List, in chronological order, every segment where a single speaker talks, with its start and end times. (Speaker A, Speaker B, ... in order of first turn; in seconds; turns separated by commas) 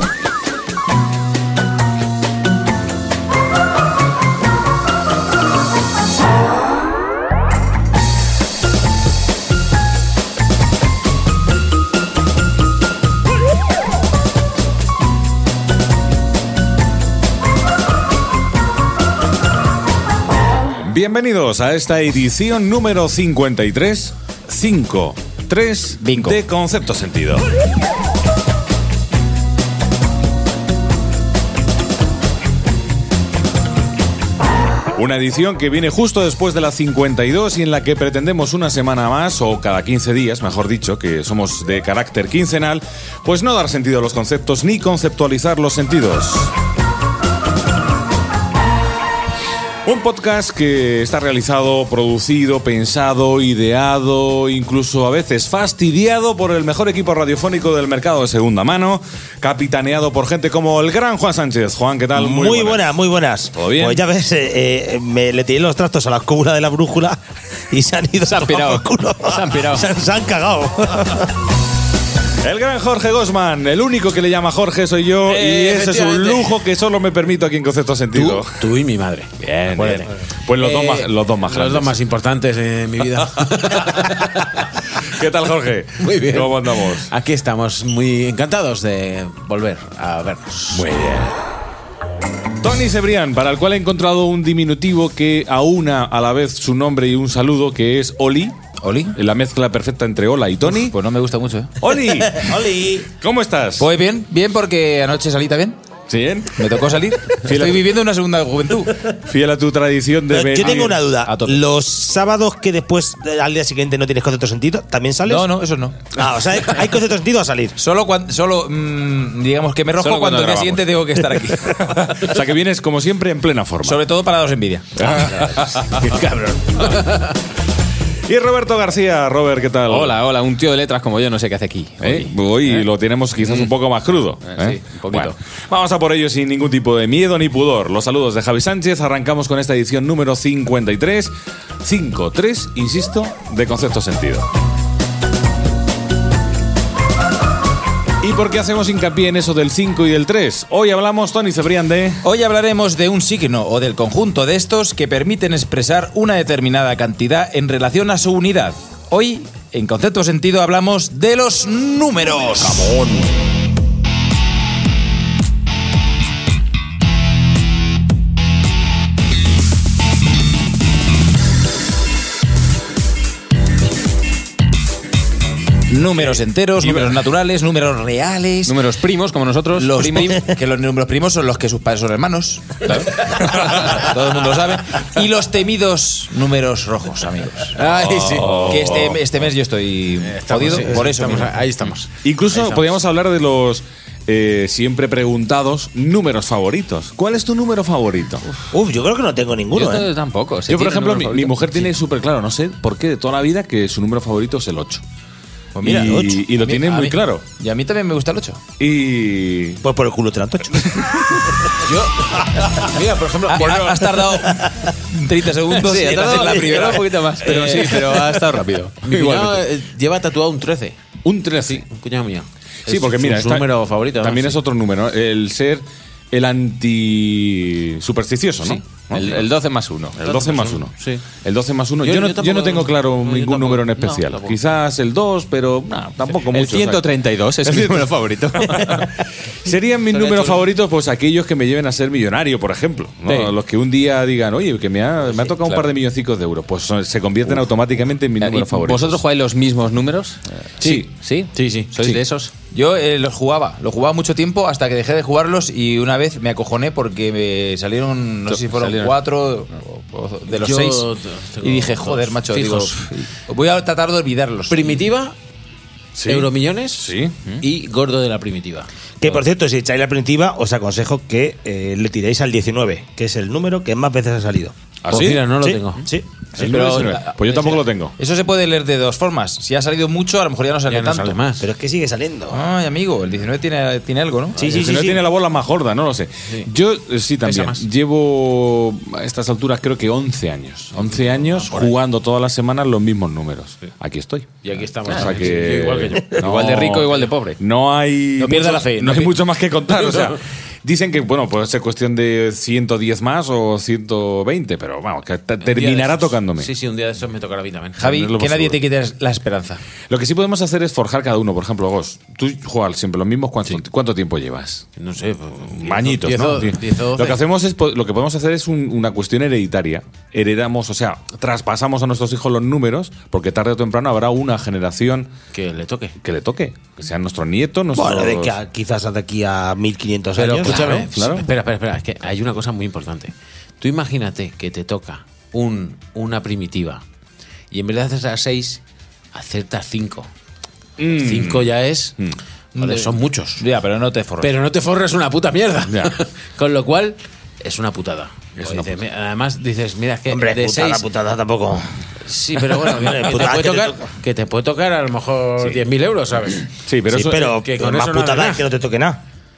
Speaker A: 20.8-27.5, Speaker B: 26.0-26.4, Speaker A: 35.0-46.5, Speaker A: 49.9-62.8, Speaker C: 62.2-67.2, Speaker A: 63.6-64.0, Speaker C: 67.7-71.3, Speaker D: 68.3-69.9, Speaker A: 72.4-78.6, Speaker E: 75.2-76.6, Speaker E: 78.1-84.6, Speaker A: 79.4-82.0, Speaker A: 85.2-87.1, Speaker E: 86.0-90.9, Speaker A: 90.7-91.3, Speaker A: 92.6-98.6, Speaker B: 98.8-99.2, Speaker A: 99.2-101.0, Speaker B: 100.7-101.8, Speaker A: 101.8-102.5, Speaker C: 102.3-103.1, Speaker A: 103.2-103.9, Speaker B: 103.8-105.8, Speaker A: 106.1-106.5, Speaker B: 106.5-109.0, Speaker A: 107.4-107.8, Speaker A: 109.3-111.0, Speaker C: 110.3-115.5, Speaker B: 111.3-111.6, Speaker B: 115.2-116.0, Speaker C: 116.1-117.8, Speaker B: 117.8-122.2, Speaker D: 120.0-120.8, Speaker A: 122.1-124.0, Speaker B: 123.8-125.3, Speaker A: 125.2-125.8, Speaker A: 128.3-130.2, Speaker D: 129.9-132.8, Speaker A: 132.0-144.5, Speaker D: 133.4-133.7, Speaker D: 134.4-135.3, Speaker A: 148.2-152.2, Speaker B: 152.2-163.0, Speaker B: 175.9-178.8, Speaker D: 178.7-180.4, Speaker B: 179.8-182.9, Speaker B: 183.6-191.5, Speaker E: 187.8-189.0, Speaker A: 188.4-188.8, Speaker E: 190.2-193.0, Speaker A: 192.2-198.5, Speaker C: 198.7-200.1, Speaker D: 199.7-201.9, Speaker A: 200.7-205.0, Speaker B: 205.8-208.6, Speaker A: 205.8-207.4, Speaker C: 205.9-206.4, Speaker A: 208.8-209.8, Speaker C: 209.8-211.2, Speaker E: 211.8-214.2, Speaker B: 213.5-217.9, Speaker D: 215.8-219.6, Speaker E: 217.4-218.1, Speaker E: 219.0-221.0, Speaker A: 221.2-221.8, Speaker E: 221.7-224.6, Speaker A: 222.9-229.5, Speaker D: 229.1-230.5, Speaker A: 230.2-237.1, Speaker E: 230.3-231.2, Speaker E: 232.0-234.6, Speaker D: 236.5-239.1, Speaker A: 237.6-238.2, Speaker A: 239.6-249.2, Speaker E: 240.1-240.7, Speaker D: 245.3-245.9, Speaker D: 248.4-252.5, Speaker A: 250.8-251.1, Speaker E: 251.6-251.9, Speaker B: 252.7-261.1, Speaker D: 258.5-259.1, Speaker E: 260.5-263.0, Speaker B: 261.6-264.9, Speaker E: 264.7-265.3, Speaker A: 266.2-267.3, Speaker E: 266.3-267.1, Speaker E: 267.6-268.9, Speaker C: 269.2-274.8, Speaker A: 275.0-275.5, Speaker E: 275.1-276.1, Speaker C: 275.6-276.3, Speaker A: 276.6-278.1, Speaker B: 276.6-281.4, Speaker E: 280.9-281.7, Speaker C: 281.6-282.6, Speaker B: 282.5-284.8, Speaker C: 284.6-285.2, Speaker A: 284.7-306.7, Speaker E: 287.4-287.8, Speaker E: 291.1-291.9, Speaker E: 294.6-296.4, Speaker D: 295.1-295.4, Speaker D: 296.4-297.6, Speaker E: 298.4-299.4, Speaker E: 299.9-300.4, Speaker E: 305.6-308.1, Speaker B: 308.0-309.8, Speaker A: 308.0-308.8, Speaker A: 310.1-314.9, Speaker E: 315.0-317.4, Speaker A: 315.7-325.3, Speaker E: 325.5-326.1, Speaker A: 326.2-328.6, Speaker C: 327.9-331.1, Speaker E: 330.4-337.0, Speaker A: 330.6-331.5, Speaker E: 337.7-338.8, Speaker E: 339.3-340.3, Speaker A: 341.0-341.7, Speaker E: 341.1-342.1, Speaker E: 342.8-343.6, Speaker B: 343.6-344.5, Speaker E: 344.4-351.1, Speaker A: 345.9-346.1, Speaker A: 348.6-349.0, Speaker C: 350.3-351.9, Speaker E: 352.3-358.7, Speaker C: 352.8-354.1, Speaker A: 356.9-357.5, Speaker C: 357.1-359.2